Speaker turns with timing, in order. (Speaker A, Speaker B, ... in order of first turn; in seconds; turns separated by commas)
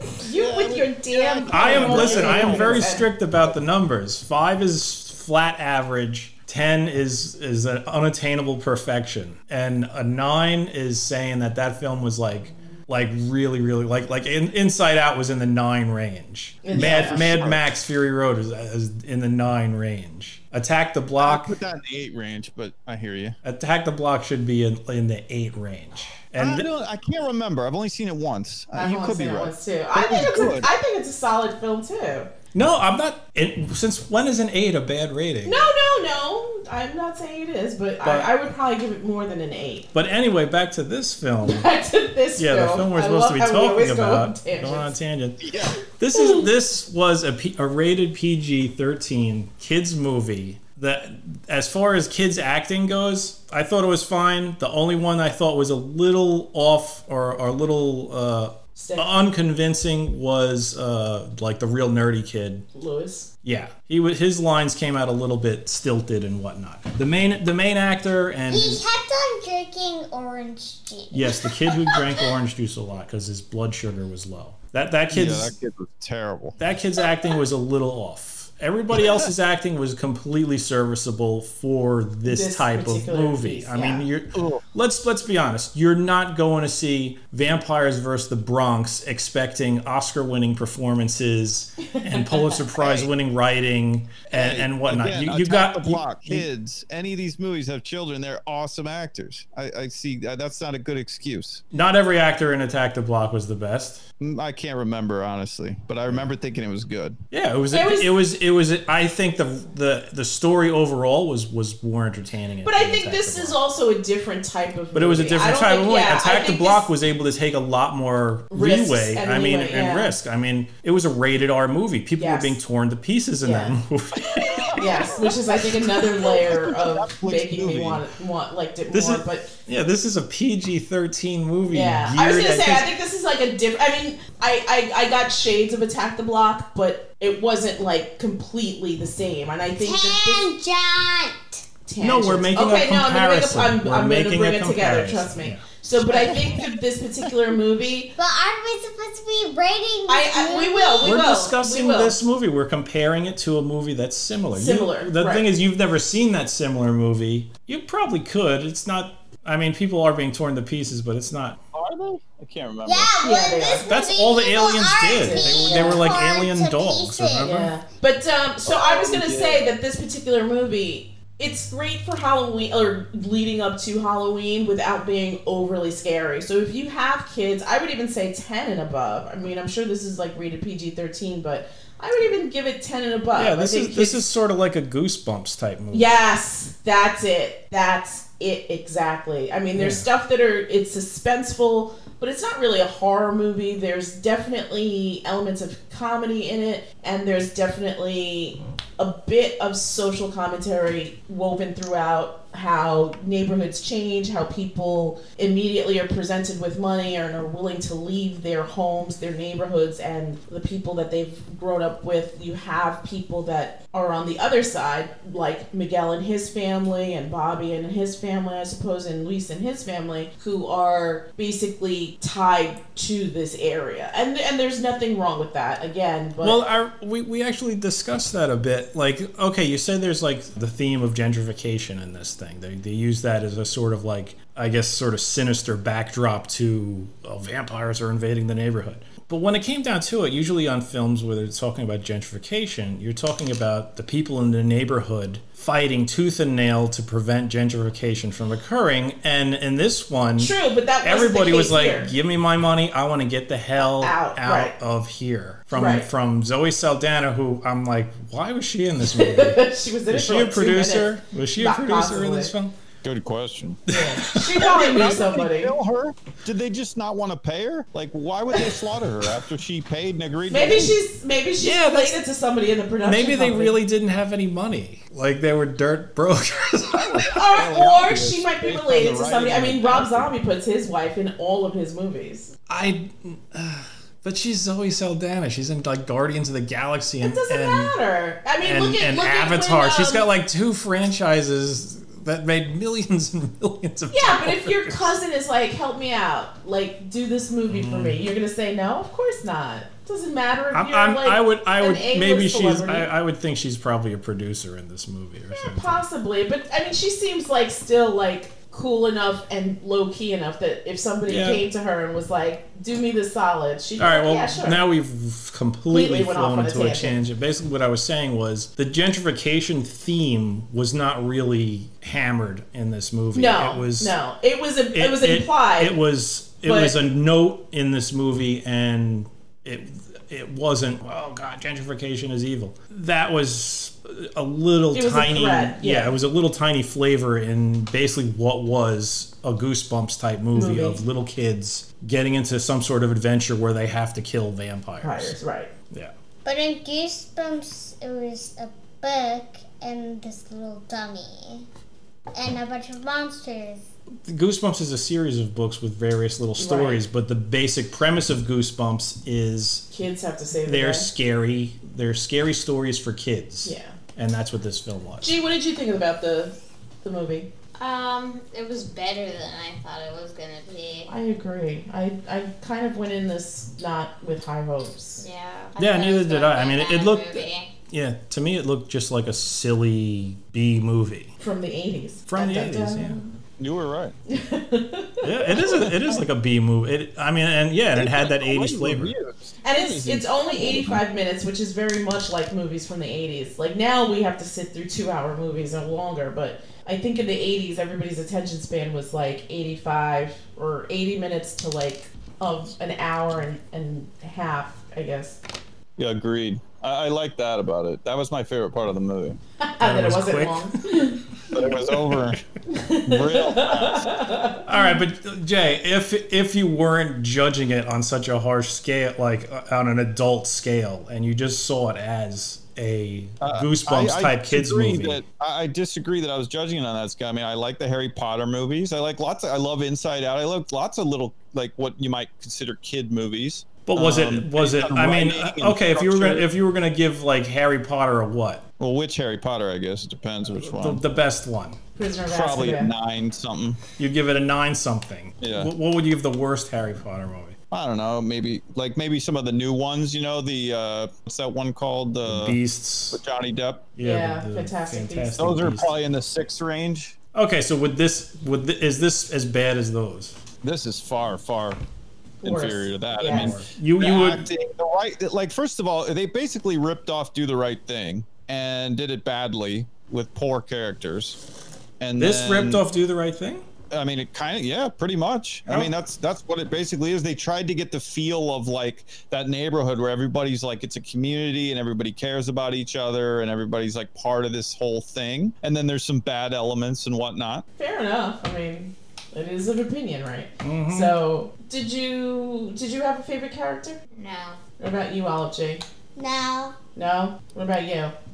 Speaker A: 0.2-3.1, Speaker B: 0.2-3.0, Speaker C: 1.5-21.6, Speaker A: 16.6-17.6, Speaker B: 21.2-23.4, Speaker C: 23.4-26.7, Speaker B: 26.4-30.7, Speaker A: 28.7-32.3, Speaker C: 32.5-35.7, Speaker A: 35.5-39.9, Speaker C: 38.0-38.3, Speaker C: 39.9-41.7, Speaker A: 41.4-44.9, Speaker C: 42.4-62.7, Speaker B: 45.4-45.8, Speaker A: 46.1-46.4, Speaker A: 58.8-59.1, Speaker A: 62.7-63.3, Speaker C: 63.4-68.8, Speaker D: 68.5-72.3, Speaker C: 71.1-75.5, Speaker B: 75.1-76.6, Speaker C: 76.6-96.5, Speaker B: 79.0-79.3, Speaker A: 82.3-84.1, Speaker B: 84.3-84.6, Speaker A: 91.9-92.6, Speaker B: 92.8-93.1, Speaker B: 94.3-101.7, Speaker C: 101.7-104.0, Speaker B: 104.2-107.2, Speaker C: 106.1-106.3, Speaker C: 107.3-113.6, Speaker A: 107.7-108.1, Speaker A: 112.7-116.9, Speaker C: 114.9-125.1, Speaker A: 118.5-120.2, Speaker A: 122.2-122.6, Speaker A: 123.4-123.8, Speaker B: 124.3-128.0, Speaker A: 124.8-129.5, Speaker C: 128.9-132.9, Speaker A: 131.7-140.5, Speaker D: 139.8-141.6, Speaker A: 141.9-148.1, Speaker C: 142.0-145.6, Speaker B: 146.2-146.5, Speaker D: 148.2-151.2, Speaker A: 150.1-152.2, Speaker C: 151.0-161.6, Speaker A: 154.5-155.5, Speaker B: 161.7-163.2, Speaker D: 162.8-167.5, Speaker A: 163.2-163.9, Speaker C: 163.9-167.7, Speaker A: 165.1-166.1, Speaker A: 167.4-184.2, Speaker B: 168.7-169.8, Speaker C: 183.3-186.2, Speaker A: 185.9-226.6, Speaker C: 189.8-190.1, Speaker C: 226.4-262.8, Speaker A: 250.4-252.1, Speaker A: 253.8-254.8, Speaker A: 255.7-256.1, Speaker A: 259.1-262.5, Speaker B: 263.0-263.9, Speaker A: 263.9-265.7, Speaker C: 263.9-264.6, Speaker B: 264.5-270.9, Speaker A: 270.5-273.8, Speaker C: 271.6-272.2, Speaker C: 273.0-277.4, Speaker B: 276.9-280.3, Speaker A: 277.3-282.5, Speaker C: 282.7-287.9, Speaker A: 287.2-290.2, Speaker C: 288.6-295.1, Speaker A: 294.1-303.1, Speaker C: 297.7-298.3, Speaker C: 300.7-306.0, Speaker A: 305.5-314.8, Speaker C: 311.3-311.6, Speaker C: 314.0-324.1, Speaker A: 315.9-317.2, Speaker A: 323.3-326.0, Speaker C: 324.9-345.4, Speaker A: 326.6-327.0, Speaker A: 334.9-336.1, Speaker A: 340.5-341.0, Speaker A: 345.0-345.7, Speaker D: 346.4-351.7, Speaker D: 352.3-353.8, Speaker C: 354.2-359.9, Speaker A: 356.6-357.0, Speaker A: 359.9-361.1, Speaker C: 360.6-365.3, Speaker A: 363.6-364.0, Speaker A: 365.2-367.5, Speaker E: 367.8-371.1, Speaker A: 371.1-375.2, Speaker E: 375.2-377.7, Speaker C: 375.8-381.3, Speaker A: 381.4-383.3, Speaker C: 382.3-383.2, Speaker B: 383.6-384.1, Speaker A: 384.3-385.9, Speaker C: 385.2-389.1, Speaker B: 387.9-391.0, Speaker A: 389.6-405.4, Speaker B: 406.0-409.4, Speaker A: 409.6-411.2, Speaker C: 409.8-412.2, Speaker B: 411.5-412.4, Speaker A: 412.7-414.6, Speaker B: 413.0-414.2, Speaker C: 414.6-425.2, Speaker B: 423.4-436.5, Speaker C: 433.9-438.6, Speaker B: 438.8-441.0, Speaker C: 440.5-441.8, Speaker A: 442.0-442.9, Speaker B: 442.2-443.8, Speaker C: 444.0-447.6, Speaker B: 445.4-445.7, Speaker B: 447.7-452.6, Speaker C: 452.2-453.2, Speaker B: 453.1-453.9, Speaker C: 454.0-455.9, Speaker A: 454.0-455.4, Speaker B: 455.4-457.2, Speaker C: 457.3-460.4, Speaker B: 460.6-461.8, Speaker A: 462.4-463.6, Speaker B: 462.4-471.4, Speaker C: 463.2-464.5, Speaker B: 472.0-472.8, Speaker C: 472.2-473.7, Speaker B: 473.9-487.7, Speaker C: 475.7-475.9, Speaker A: 487.8-494.0, Speaker C: 490.6-491.2, Speaker E: 494.2-494.6, Speaker A: 494.8-495.8, Speaker D: 496.2-496.8, Speaker A: 497.0-498.1